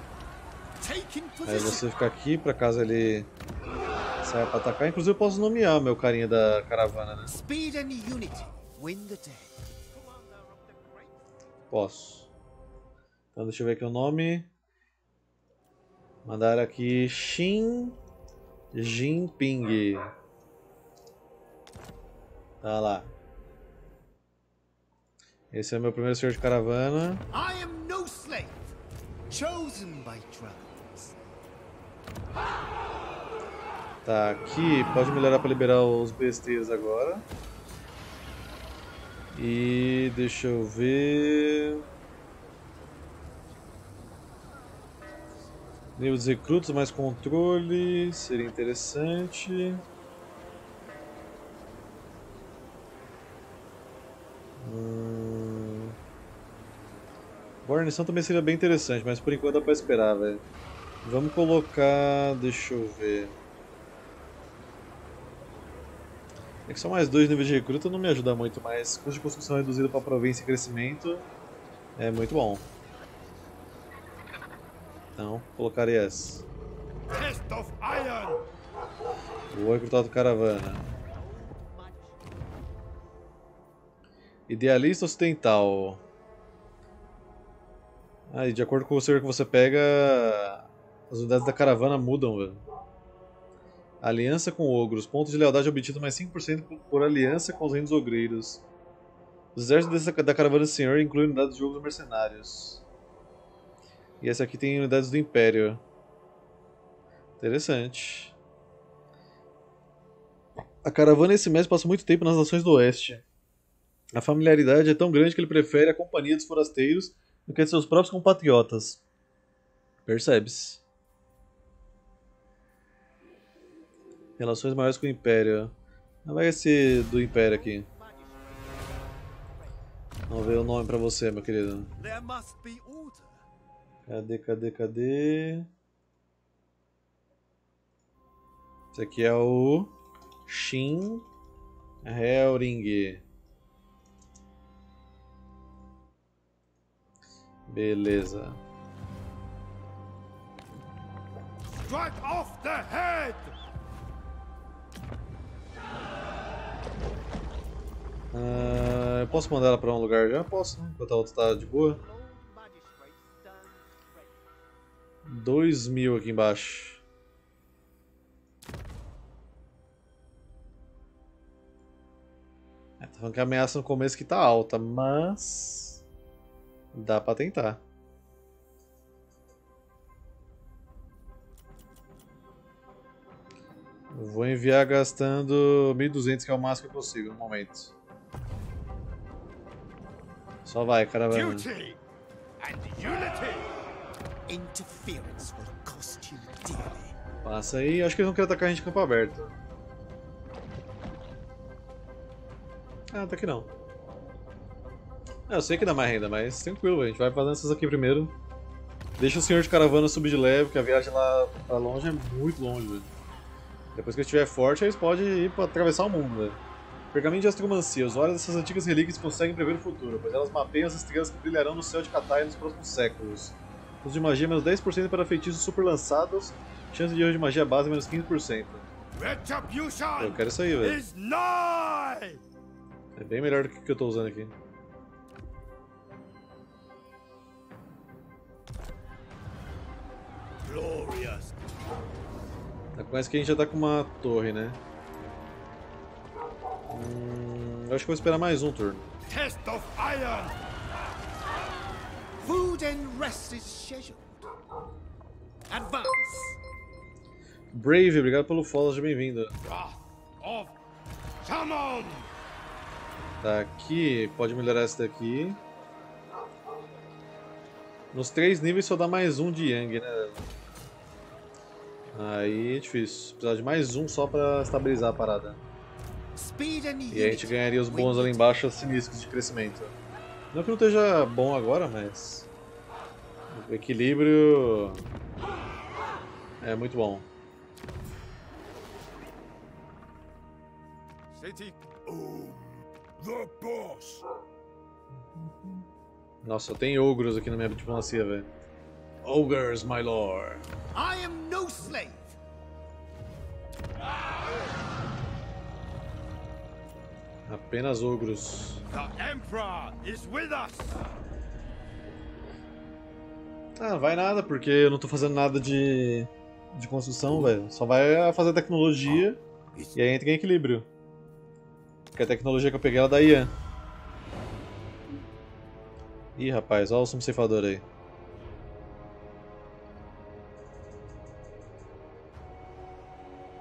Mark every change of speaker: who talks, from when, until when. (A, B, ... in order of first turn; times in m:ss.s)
0:00.8-0:02.1 A
0:01.4-0:03.3 B
0:04.2-0:07.3 B
0:07.3-0:11.3 A
0:11.7-0:12.3 B
0:13.4-0:14.5 B
0:16.2-0:18.0 B
0:18.7-0:20.1 B
0:22.6-0:23.1 B
0:25.5-0:27.2 B
0:27.3-0:28.7 A
0:29.3-0:31.2 A
0:34.1-0:37.2 B
0:39.4-0:41.8 B
0:46.0-0:49.8 B
0:54.6-0:56.0 B
0:57.6-1:00.4 B
1:01.0-1:03.3 B
1:06.7-1:11.2 B
1:12.0-1:12.6 B
1:15.2-1:16.4 B
1:17.1-1:18.5 C
1:19.5-1:20.8 B
1:21.1-1:22.2 A
1:24.5-1:26.0 B
1:28.3-1:32.6 B
1:34.0-1:38.6 B
1:39.6-1:42.8 B
1:44.2-1:45.8 B
1:47.4-1:48.3 B
1:50.8-1:53.2 B
1:54.1-1:59.0 B
2:00.1-2:00.8 B
2:04.4-2:05.7 B
2:06.2-2:07.9 B
2:07.2-2:09.8 A
2:10.3-2:11.9 B
2:12.0-2:13.4 A
2:14.1-2:15.7 B
2:18.9-2:19.9 B
2:20.5-2:21.2 B
2:22.0-2:23.2 B
2:27.7-2:28.6 B
2:31.7-2:33.6 C
2:38.3-2:42.0 B
2:41.6-2:44.4 A
2:45.3-2:47.0 B
2:53.0-2:56.0 B
2:56.9-2:57.8 B
3:04.1-3:07.9 B
3:10.7-3:11.7 B
3:11.3-3:12.0 C
3:12.6-3:13.7 C
3:14.5-3:17.2 A
3:17.4-3:19.5 B
3:23.1-3:23.7 B
3:25.5-3:28.3 B
3:29.2-3:33.1 B
3:34.0-3:36.6 B
3:37.1-3:48.9 B
3:49.1-3:52.4 C
3:50.2-3:51.0 B
3:53.2-3:54.5 B
4:00.6-4:01.6 C
4:03.0-4:04.8 B
4:06.9-4:09.1 B
4:09.3-4:10.6 C
4:12.4-4:14.4 A
4:15.7-4:16.6 A
4:17.7-4:19.5 B
4:19.6-4:20.7 C
4:21.4-4:22.3 C
4:23.4-4:25.6 B
4:28.1-4:30.4 B
4:32.1-4:35.6 B
4:36.4-4:38.6 A
4:37.1-4:39.9 B
4:40.5-4:42.5 B
4:43.5-4:45.0 B
4:46.6-4:47.2 B
4:51.3-4:54.2 C
4:56.4-4:58.5 B
4:59.2-5:00.7 B
5:00.9-5:02.4 A
5:07.5-5:08.8 B
5:08.9-5:11.0 C
5:13.8-5:19.4 B
5:20.0-5:20.9 B
5:22.1-5:23.5 B
5:26.4-5:27.8 B